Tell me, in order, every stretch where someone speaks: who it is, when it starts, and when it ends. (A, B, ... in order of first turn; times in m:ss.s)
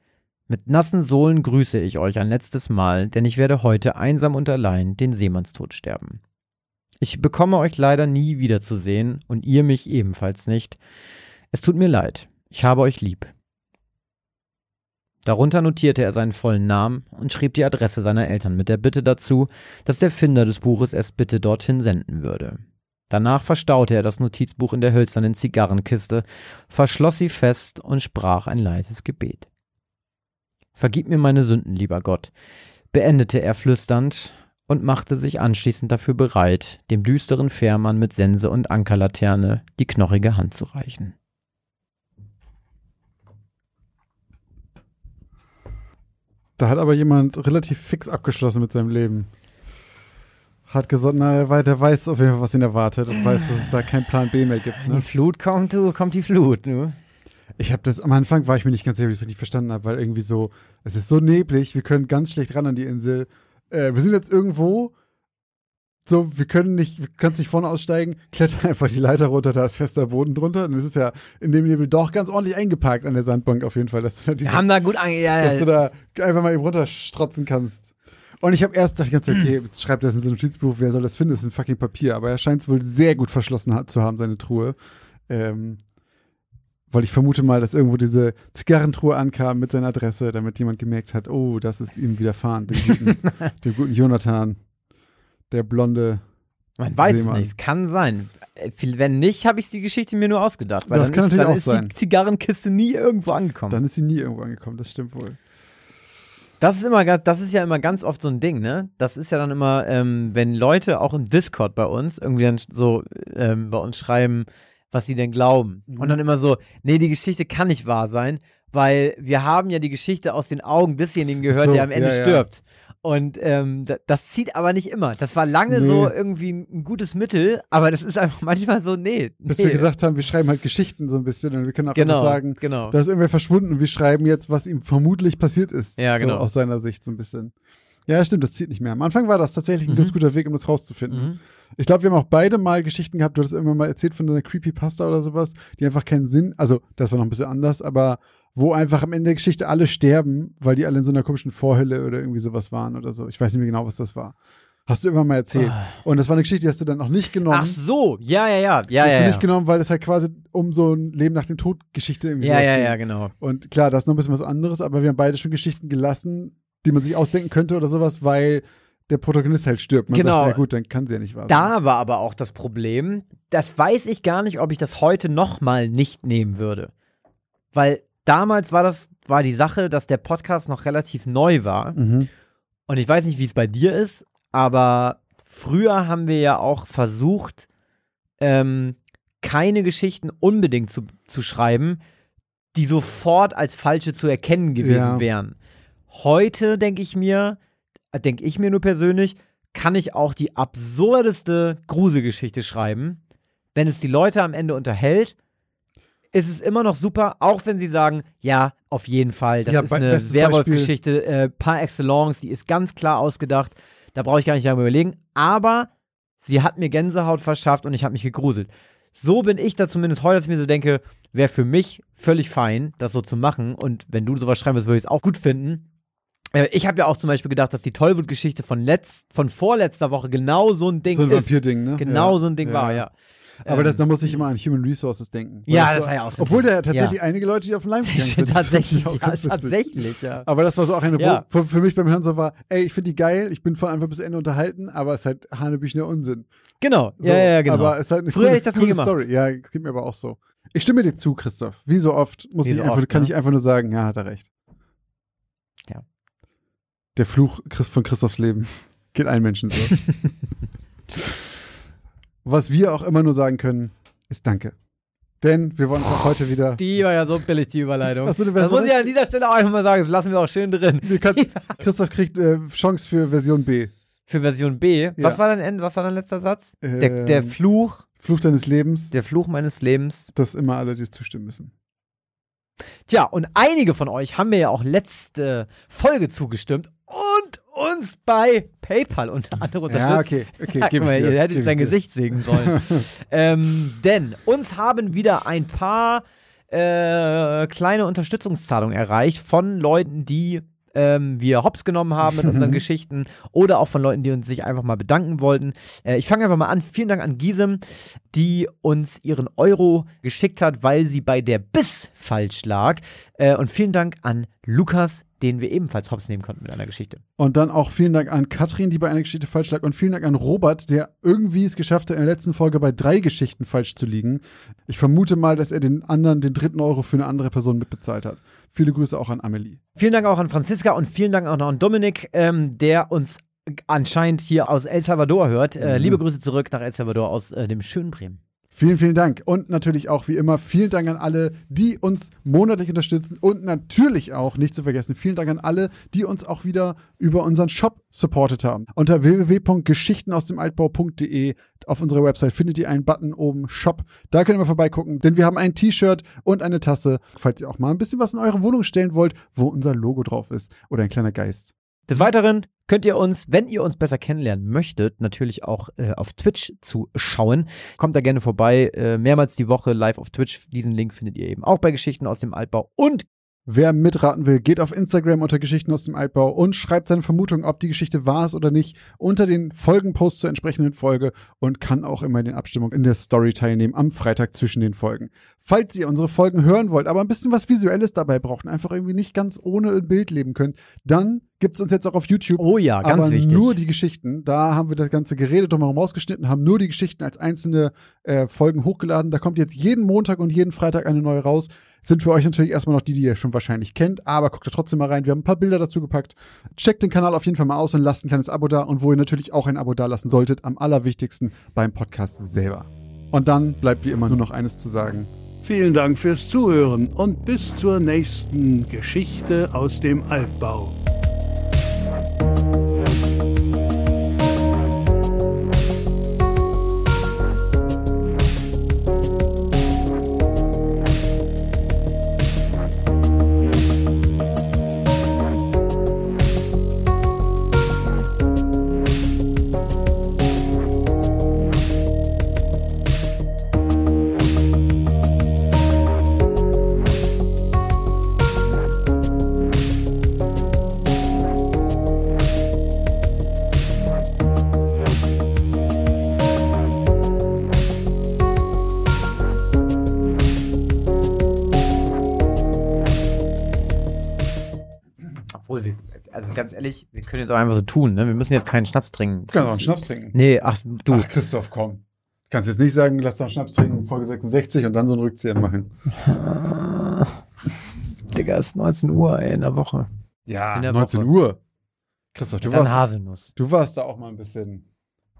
0:00.5-0:06.2 A
0:07.0-0:10.8 A
0:11.5-0:13.3 A
0:15.2-0:29.5 A
0:30.8-0:32.3 A
0:32.9-0:41.1 A
0:46.6-0:49.3 B
0:50.7-0:55.1 B
0:54.8-0:57.0 A
0:57.6-1:04.9 B
1:06.0-1:14.7 B
1:14.4-1:15.7 A
1:15.4-1:17.9 B
1:18.4-1:24.8 B
1:25.3-1:25.8 B
1:26.9-1:34.6 B
1:35.5-1:36.2 B
1:36.8-1:43.8 A
1:37.0-1:37.5 B
1:40.9-1:41.9 B
1:43.7-1:45.4 B
1:46.6-2:09.9 A
1:55.9-1:56.2 B
2:01.5-2:02.4 B
2:05.7-2:06.1 B
2:09.5-2:17.5 B
2:11.9-2:12.9 A
2:16.0-2:16.5 A
2:18.1-2:34.4 B
2:19.9-2:20.1 A
2:21.1-2:21.4 A
2:34.9-2:37.8 B
2:35.5-2:35.9 A
2:37.5-2:39.4 A
2:39.0-2:51.7 B
2:42.4-2:43.3 A
2:50.1-2:50.6 A
2:51.5-2:56.9 A
2:57.7-3:02.0 A
3:02.0-3:02.3 B
3:02.9-3:07.7 A
3:08.4-3:12.0 A
3:12.7-3:15.5 A
3:14.8-3:15.2 B
3:16.1-3:17.6 A
3:18.1-3:23.2 A
3:23.7-3:25.3 A
3:26.3-3:35.9 A
3:29.6-3:30.9 B
3:36.4-3:45.8 A
3:46.5-3:53.1 A
3:51.1-3:53.0 B
3:53.6-3:54.3 A
3:53.6-3:59.8 B
3:55.7-3:57.2 A
3:58.0-4:00.5 A
4:00.4-4:06.5 B
4:01.2-4:01.4 A
4:06.8-4:09.2 A
4:07.2-4:14.5 B
4:12.6-4:13.3 A
4:17.2-4:20.0 B
4:22.4-4:24.7 B
4:25.4-4:26.8 B
4:26.8-4:31.8 A
4:28.2-4:29.1 B
4:31.0-4:33.9 B
4:34.3-4:38.0 A
4:36.8-4:37.6 B
4:38.2-4:39.1 B
4:39.1-4:40.3 A
4:40.3-4:41.7 B
4:43.1-5:17.2 A
4:49.9-4:53.0 B
5:02.5-5:02.8 B
5:17.4-5:29.8 B
5:30.0-5:38.4 A
5:35.8-5:36.2 B
5:38.7-6:01.7 B
6:02.1-6:13.2 A
6:13.7-6:55.3 B
6:32.6-6:33.8 A
6:55.6-7:01.0 C
7:45.5-7:51.3 A
7:49.5-7:50.4 B
7:51.1-7:55.9 B
7:56.2-7:57.4 A
7:58.3-8:00.1 A
8:00.5-8:01.6 B
8:00.7-8:01.3 A
8:02.3-8:03.0 B
8:02.6-8:03.5 A
8:03.5-8:04.8 B